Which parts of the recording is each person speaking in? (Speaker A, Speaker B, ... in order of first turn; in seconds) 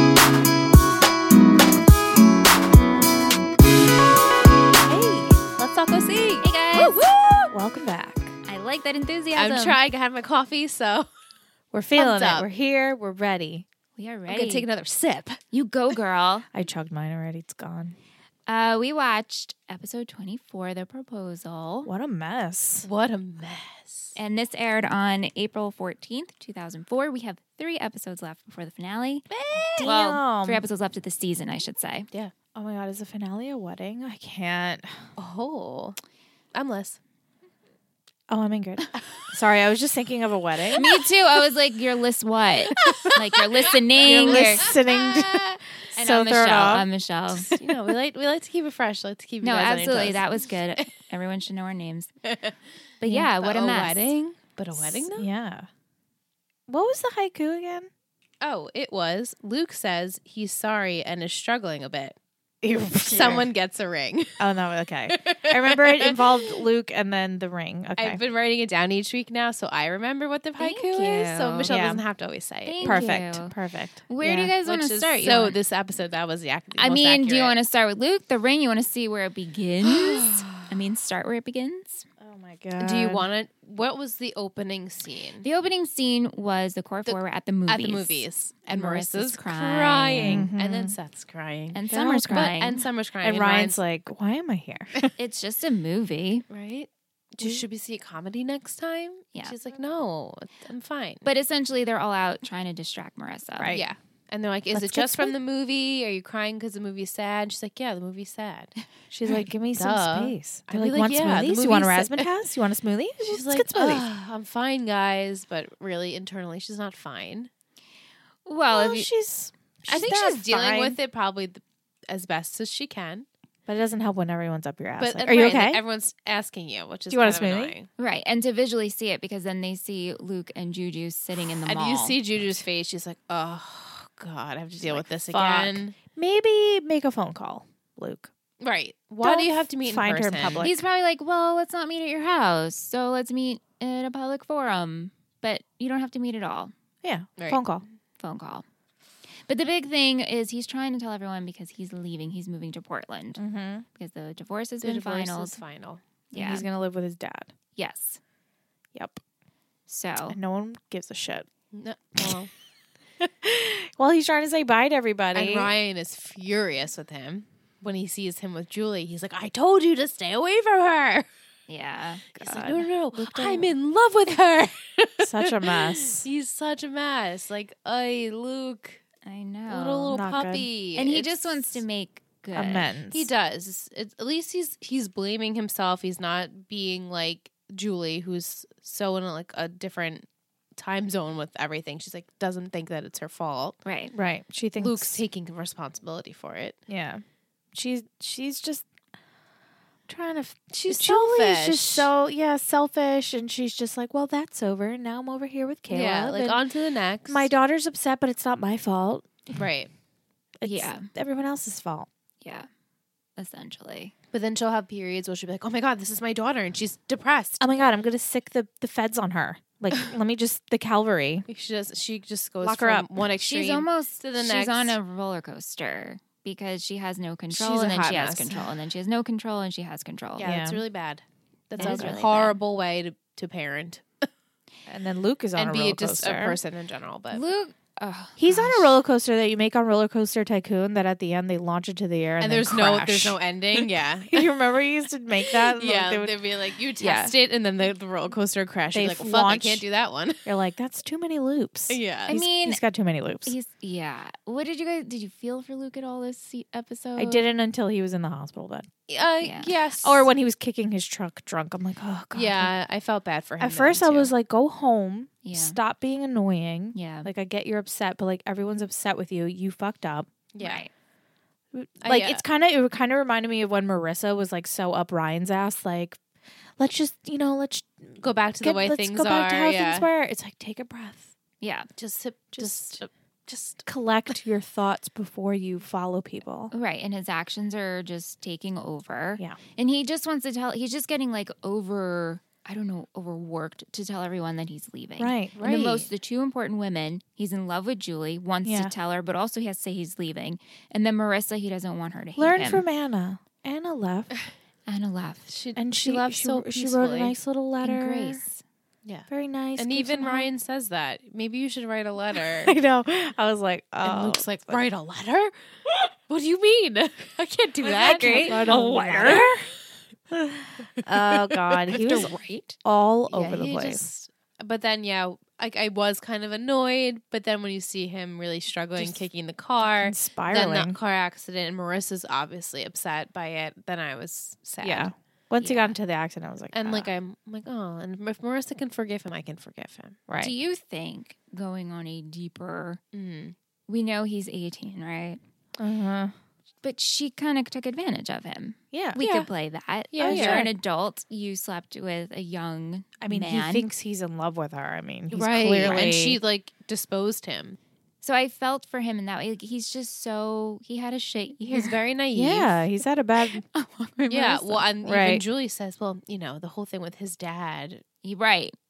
Speaker A: 4.8-5.4, 7.5-8.4, 11.7-13.7, 16.5-17.9, 21.8-22.9, 29.8-30.6, 32.5-35.0, 38.3-40.8, 44.0-45.4, 46.0-46.9, 54.7-55.7, 56.7-57.9, 62.6-63.5, 64.4-68.2, 71.6-72.0, 72.8-74.5, 82.2-83.3, 90.2-91.0, 91.9-92.5, 93.2-95.1, 103.6-103.8, 104.7-105.3, 109.1-114.0, 118.7-121.0, 123.7-125.8, 127.1-127.7, 135.2-138.3, 139.2-140.7, 147.0-147.8, 153.4-153.8, 156.3-157.5, 158.9-159.2, 160.3-161.4, 163.4-165.7, 173.1-173.7, 175.2-176.3, 180.1-180.7, 182.5-183.3, 194.1-195.1, 196.9-197.2, 197.7-198.9, 200.1-206.6, 207.3-209.3, 210.6-212.1, 217.6-221.4, 222.6-223.1, 230.4-230.8, 231.8-232.2, 234.9-236.6, 238.4-246.3, 248.9-249.8, 250.4-253.5, 257.1-258.9, 260.0-262.7, 263.6-270.3, 271.7-276.2, 276.8-281.3, 282.5-283.0, 283.9-286.7, 295.2-295.6, 298.6-298.9, 302.4-304.3, 305.8-308.4, 309.3-310.4, 312.6-314.8, 317.8-319.7, 320.3-324.1, 329.8-330.9, 334.8-337.1, 340.3-340.5, 345.8-346.3, 348.9-349.2, 350.2-350.7, 353.2-356.4, 362.3-363.6, 364.3-365.4
Speaker B: 5.6-7.5, 9.3-11.1, 11.9-12.5, 14.3-15.4, 22.8-24.1, 29.3-29.9, 35.2-36.0, 36.5-37.0, 40.7-41.1, 42.7-45.2, 47.5-50.9, 52.2-55.3, 58.4-62.2, 63.0-64.4, 65.1-66.2, 68.0-73.1, 74.6-77.6, 79.8-80.7, 82.8-85.5, 87.0-93.8, 96.5-101.2, 103.7-108.7, 109.3-112.3, 113.2-117.5, 119.8-123.3, 125.0-127.9, 131.7-135.9, 138.6-140.8, 154.8-156.0, 161.7-162.5, 165.3-171.3, 172.4-179.0, 179.7-181.8, 183.1-193.8, 194.8-196.8, 200.7-202.1, 205.9-207.5, 209.5-209.9, 214.3-217.6, 221.5-225.0, 227.5-228.7, 230.4-234.3, 235.5-237.4, 242.4-244.5, 245.6-250.5, 251.9-252.4, 259.1-260.3, 262.3-264.3, 270.5-270.8, 272.0-272.4, 278.2-280.1, 281.9-283.8, 295.6-296.1, 305.5-307.4, 309.0-312.7, 314.0-315.5, 316.3-319.6, 321.1-322.2, 323.3-335.1, 336.7-340.2, 343.1-343.6, 349.2-349.5, 350.1-350.7, 355.3-357.8, 361.7-362.8, 364.3-368.0
Speaker C: 6.4-7.1, 8.4-9.8, 14.0-14.7, 15.5-16.5, 18.5-21.9, 24.2-29.2, 29.8-32.1, 40.7-47.5, 49.4-52.1, 53.0-54.3, 70.6-71.7, 72.7-73.5, 74.1-75.5, 76.7-82.0, 85.4-90.5, 91.7-92.8, 95.2-96.4, 101.2-103.8, 118.5-119.1, 128.0-132.1, 140.6-146.7, 148.2-148.6, 149.5-153.4, 153.9-155.6, 156.3-156.7, 157.8-158.2, 159.9-160.4, 171.7-172.8, 179.2-180.1, 180.9-182.9, 193.8-194.1, 210.6-211.1, 212.4-212.7, 213.4-214.1, 223.4-230.4, 231.8-232.6, 237.3-239.0, 247.0-247.3, 252.3-252.8, 253.4-257.4, 259.4-259.7, 265.4-265.8, 266.9-267.3, 270.6-270.9, 281.6-281.9, 286.7-302.8, 304.9-305.4, 307.8-308.6, 317.9-319.5, 321.9-322.8, 335.6-335.9, 340.4-343.0, 343.9-345.4, 346.8-353.9, 355.8-356.1, 358.2-361.9, 363.7-364.4, 368.2-368.7